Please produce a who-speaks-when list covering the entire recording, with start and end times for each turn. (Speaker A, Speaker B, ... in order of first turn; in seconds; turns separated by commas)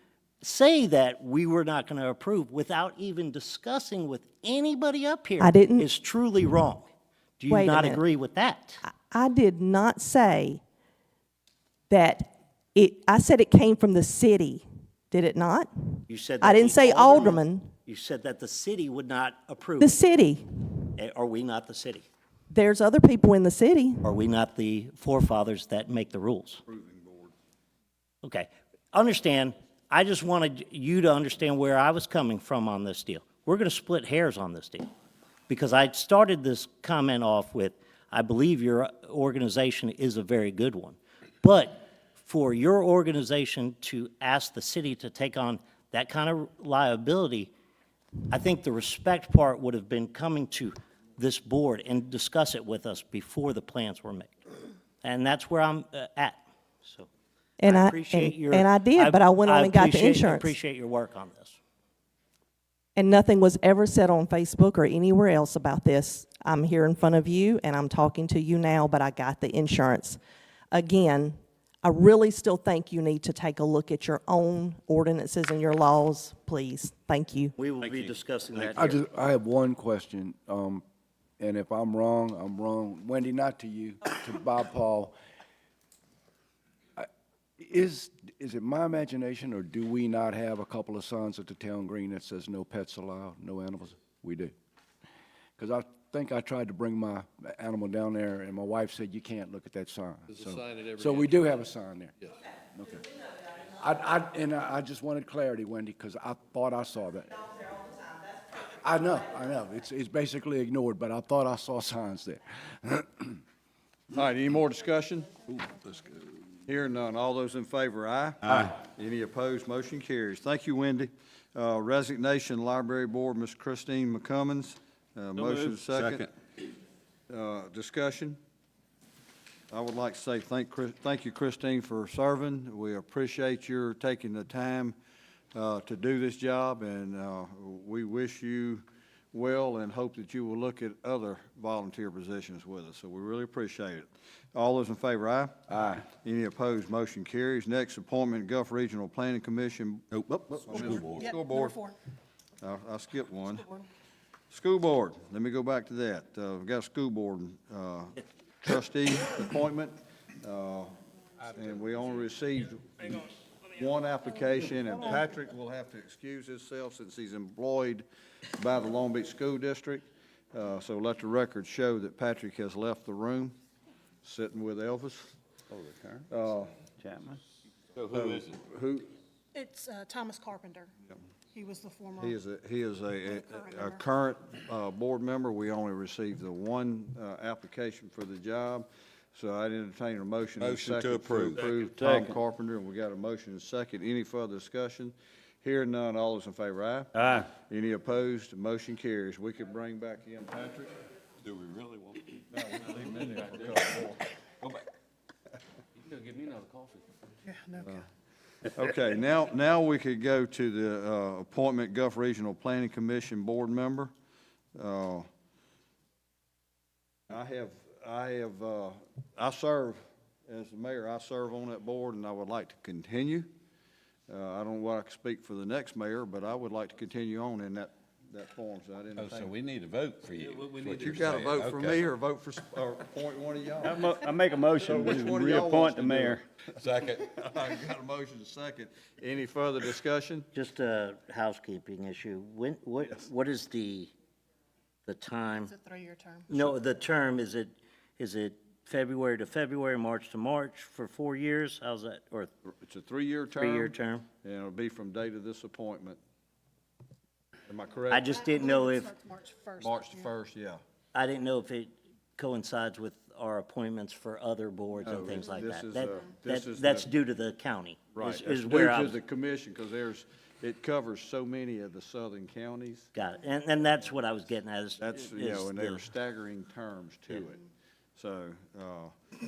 Speaker A: 0.4-6.9, Speaker B: 5.4-5.9, Speaker A: 7.4-8.8, Speaker B: 7.5-8.0, Speaker B: 9.0-10.6, Speaker B: 11.9-17.6, Speaker A: 16.1-20.0, Speaker B: 19.8-20.4, Speaker A: 21.0-22.1, Speaker B: 22.5-24.0, Speaker A: 24.0-26.6, Speaker C: 26.7-27.3, Speaker A: 28.2-34.9, Speaker A: 35.5-47.5, Speaker A: 48.3-54.3, Speaker A: 55.0-57.1, Speaker B: 57.6-60.5, Speaker A: 57.6-61.6, Speaker B: 63.0-70.2, Speaker B: 70.7-77.5, Speaker A: 77.6-79.0, Speaker D: 78.6-80.8, Speaker D: 81.4-85.2, Speaker D: 87.6-94.5, Speaker D: 95.6-102.1, Speaker E: 100.5-101.4, Speaker D: 102.7-103.1, Speaker D: 103.7-108.0, Speaker D: 108.5-113.4, Speaker C: 114.1-115.5, Speaker E: 115.5-116.2, Speaker C: 116.7-126.3, Speaker E: 118.4-118.8, Speaker E: 125.3-126.3, Speaker C: 127.3-128.4, Speaker C: 129.7-135.0, Speaker C: 135.5-151.8, Speaker E: 150.1-151.3, Speaker F: 150.7-152.0, Speaker C: 152.6-153.7, Speaker C: 154.5-173.6, Speaker C: 174.2-175.3, Speaker G: 175.7-176.2, Speaker C: 176.3-176.8, Speaker G: 177.0-177.4, Speaker E: 178.0-178.6, Speaker C: 178.1-179.1, Speaker F: 179.5-180.9, Speaker F: 181.5-182.4, Speaker C: 182.2-201.0, Speaker F: 183.2-184.0, Speaker G: 190.6-192.3, Speaker E: 191.5-192.1, Speaker G: 197.1-197.5, Speaker E: 201.4-202.4, Speaker C: 202.5-204.2, Speaker E: 206.2-206.7, Speaker F: 207.5-208.0, Speaker C: 207.8-208.1, Speaker C: 208.7-214.1, Speaker C: 214.8-215.3, Speaker C: 217.3-223.5, Speaker C: 224.3-229.5, Speaker E: 229.2-232.1, Speaker G: 230.4-231.2, Speaker C: 230.8-234.1, Speaker G: 233.8-236.4, Speaker C: 234.7-240.5, Speaker E: 236.8-237.2, Speaker A: 240.6-244.1, Speaker A: 245.1-245.7, Speaker F: 245.7-246.5, Speaker A: 246.5-252.5, Speaker C: 252.7-256.2, Speaker A: 253.6-254.3, Speaker C: 257.7-258.3, Speaker A: 258.1-259.1, Speaker F: 258.3-260.3, Speaker C: 259.8-260.8, Speaker A: 261.1-269.2, Speaker C: 265.0-267.1, Speaker C: 268.1-273.1, Speaker A: 273.1-276.1, Speaker C: 275.0-277.6, Speaker C: 278.2-279.1